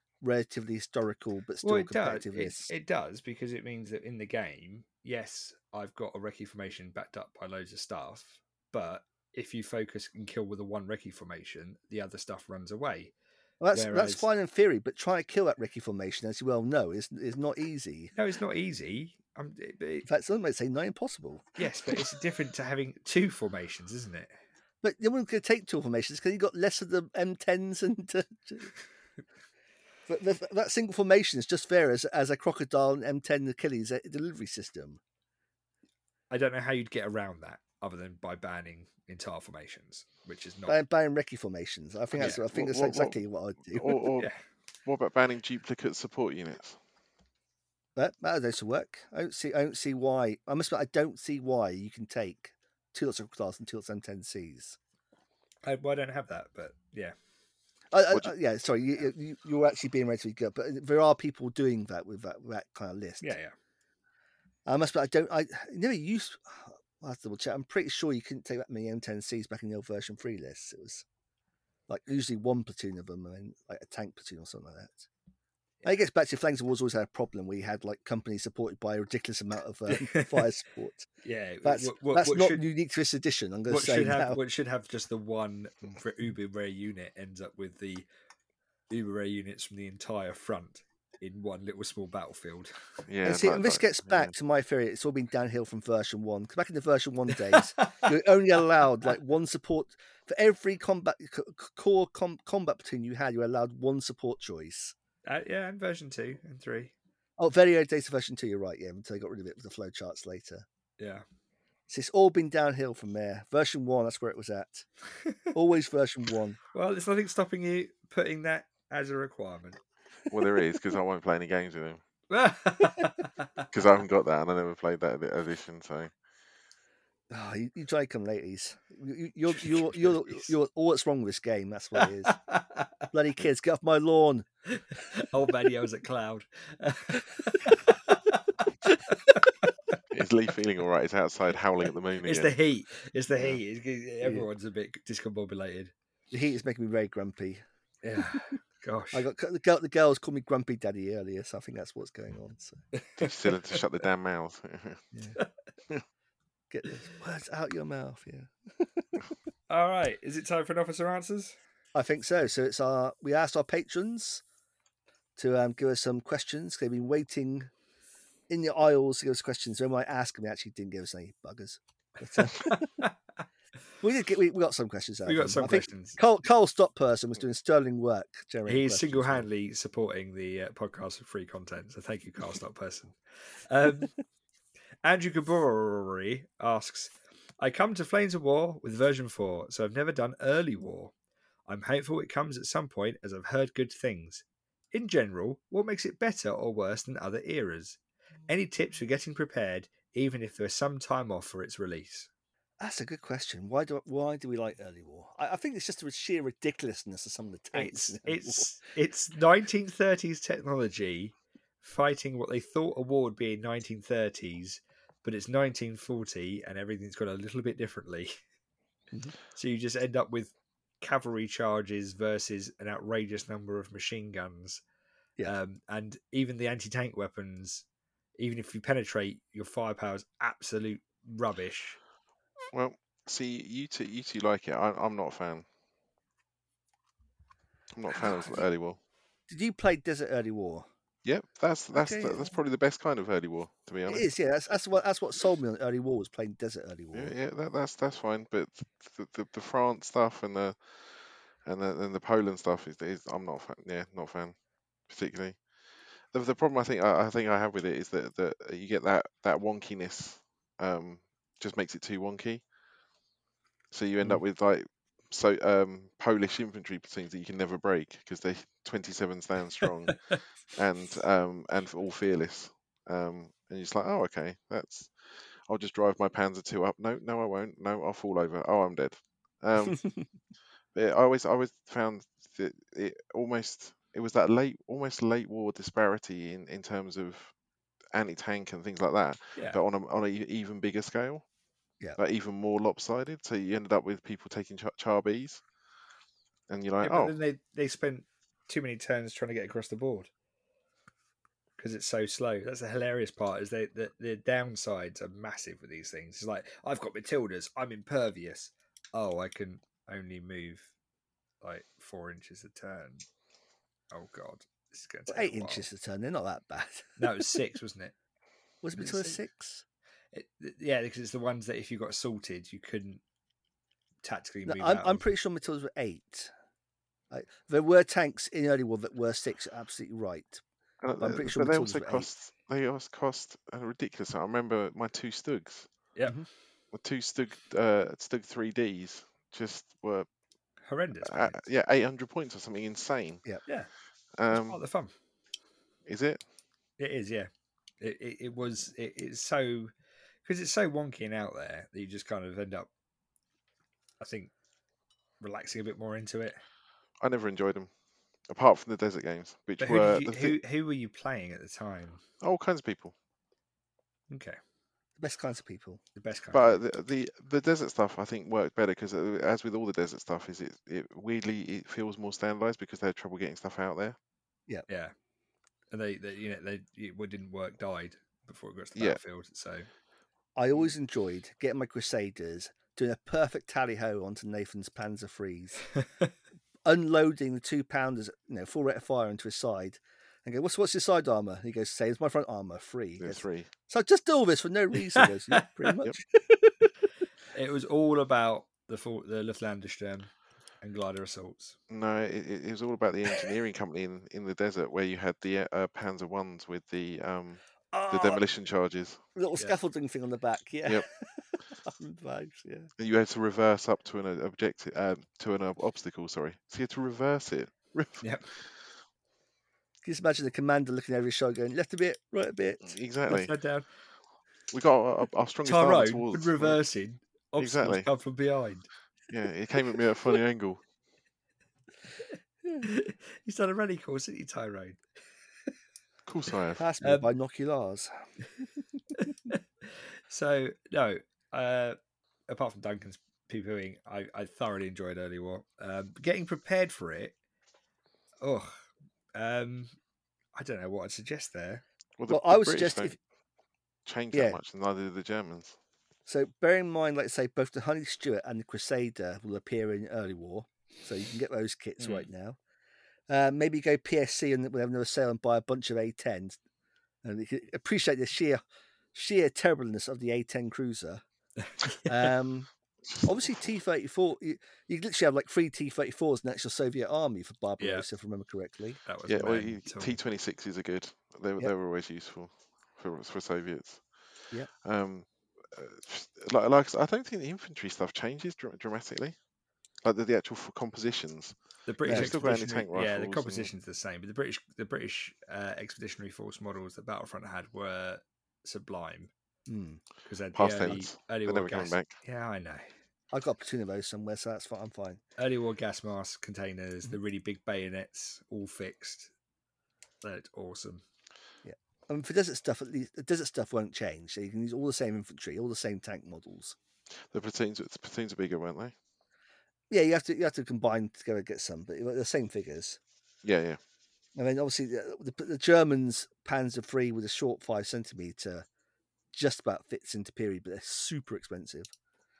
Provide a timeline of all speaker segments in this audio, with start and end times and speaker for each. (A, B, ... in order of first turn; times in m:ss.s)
0:00.2-0:02.7 A
0:01.6-0:13.1 B
0:13.6-0:18.1 A
0:13.7-0:14.3 B
0:18.1-0:20.1 B
0:20.0-0:22.0 A
0:21.6-0:24.3 B
0:24.8-0:28.7 A
0:30.1-0:35.0 A
0:36.3-0:40.8 B
0:40.7-0:44.1 A
0:42.2-0:43.2 C
0:42.2-0:42.4 B
0:43.7-0:44.3 C
0:44.8-0:46.8 C
0:48.0-0:54.8 A
0:55.6-0:57.1 B
0:57.9-1:03.4 A
1:03.2-1:03.5 B
1:04.6-1:11.0 A
1:11.9-1:15.1 A
1:15.8-1:21.1 A
1:19.9-1:20.5 B
1:21.2-1:22.6 B
1:21.6-1:24.4 A
1:23.7-1:28.1 B
1:28.9-1:32.7 B
1:33.0-1:34.3 C
1:33.2-1:44.9 A
1:37.8-1:38.0 B
1:45.2-1:46.9 B
1:47.4-1:50.6 A
1:51.0-1:51.2 B
1:51.9-1:54.8 A
1:55.5-1:56.6 A
1:56.7-1:59.8 B
2:00.3-2:02.0 C
2:02.3-2:03.6 B
2:03.7-2:06.1 C
2:07.3-2:12.4 A
2:09.6-2:10.3 B
2:12.0-2:12.9 B
2:13.1-2:14.5 A
2:14.7-2:20.0 B
2:20.1-2:22.5 C
2:22.2-2:25.9 B
2:24.2-2:24.5 A
2:26.3-2:27.6 A
2:28.0-2:29.3 B
2:29.1-2:32.8 A
2:32.9-2:33.3 B
2:33.2-2:35.0 C
2:35.1-2:35.4 A
2:36.7-2:39.3 A
2:39.7-2:41.6 B
2:41.9-2:44.4 A
2:45.4-2:47.7 A
2:48.5-2:53.0 A
2:52.4-2:53.1 B
2:54.0-2:59.5 A
2:55.2-2:56.2 B
2:58.7-3:04.1 B
3:05.0-3:11.1 B
3:11.7-3:22.3 B
3:22.8-3:28.7 A
3:27.7-3:38.4 B
3:39.5-3:44.8 B
3:45.4-3:47.8 B
3:48.4-3:52.0 B
3:52.7-3:55.6 C
3:57.9-3:59.0 C
3:58.1-3:58.6 A
3:59.5-4:00.9 A
4:01.2-4:04.3 C
4:01.9-4:02.5 A
4:04.1-4:07.3 A
4:07.1-4:14.5 C
4:15.1-4:15.6 C
4:16.3-4:22.6 C
4:23.9-4:35.1 C
4:35.7-4:40.1 C
4:40.9-4:47.5 C
4:48.1-4:51.4 C
4:52.2-4:55.6 C
4:56.7-4:57.4 C
4:57.0-5:00.3 B
5:01.8-5:10.9 B
5:11.6-5:13.2 B
5:14.1-5:15.8 B
5:15.3-5:17.4 A
5:17.2-5:18.1 B
5:18.8-5:19.8 A
5:19.0-5:19.4 B
5:20.3-5:23.2 B
5:24.2-5:25.2 B
5:24.6-5:26.5 A
5:27.3-5:30.6 A
5:31.0-5:35.9 C
5:31.2-5:32.3 A
5:36.1-5:36.4 B
5:36.9-5:40.3 C
5:40.8-5:41.6 B
5:41.2-5:43.4 C
5:44.4-5:44.8 C
5:44.5-5:45.1 B
5:46.1-5:46.4 C
5:47.0-5:47.5 B
5:48.0-5:49.9 B
5:50.4-5:52.9 B
5:54.2-5:54.5 B
5:55.4-5:56.6 B
5:57.2-5:57.9 C
5:58.5-6:00.6 C
5:59.8-6:02.2 B
6:02.4-6:03.1 C
6:04.3-6:04.6 B
6:05.2-6:06.0 A
6:06.2-6:06.8 B
6:06.5-6:14.2 C
6:14.9-6:15.1 B
6:15.9-6:19.9 B
6:20.6-6:25.8 A
6:26.0-6:26.3 B
6:26.8-6:36.9 A
6:33.2-6:33.7 C
6:35.2-6:35.6 B
6:37.5-6:41.8 B
6:41.9-6:49.2 C
6:47.9-6:48.4 A
6:49.4-6:52.9 A
6:53.0-6:58.6 C
6:58.2-6:58.5 B
7:00.0-7:02.9 A
7:02.8-7:03.5 C
7:03.3-7:03.9 B
7:04.7-7:06.8 C
7:05.6-7:08.9 B
7:07.6-7:08.1 C
7:09.3-7:10.8 C
7:12.8-7:15.0 B
7:16.2-7:16.8 C
7:16.8-7:18.1 A
7:17.0-7:17.3 B
7:19.2-7:22.0 B
7:22.5-7:27.3 B
7:28.4-7:29.9 B
7:30.5-7:31.8 B
7:32.2-7:33.2 C
7:32.3-7:33.2 A
7:34.0-7:35.8 C
7:34.3-7:34.6 A
7:36.2-7:42.6 A
7:42.0-7:42.3 B
7:43.3-7:46.6 A
7:47.2-7:48.6 A
7:49.1-7:51.2 A
7:51.6-7:52.3 B
7:52.0-7:52.7 A
7:53.1-7:53.6 C
7:53.2-7:59.0 A
7:57.8-7:58.0 B
7:59.0-8:00.2 B
7:59.3-8:04.0 C
8:04.8-8:09.4 C
8:10.0-8:13.7 C
8:11.9-8:19.3 B
8:12.0-8:12.4 A
8:19.6-8:20.0 A
8:20.2-8:22.9 B
8:20.5-8:22.1 C
8:23.3-8:25.2 A
8:25.4-8:29.3 B
8:30.2-8:31.0 B
8:31.6-8:36.8 A
8:37.3-8:38.9 C
8:39.9-8:43.0 A
8:43.4-8:43.8 C
8:44.3-8:48.6 A
8:49.3-8:51.9 A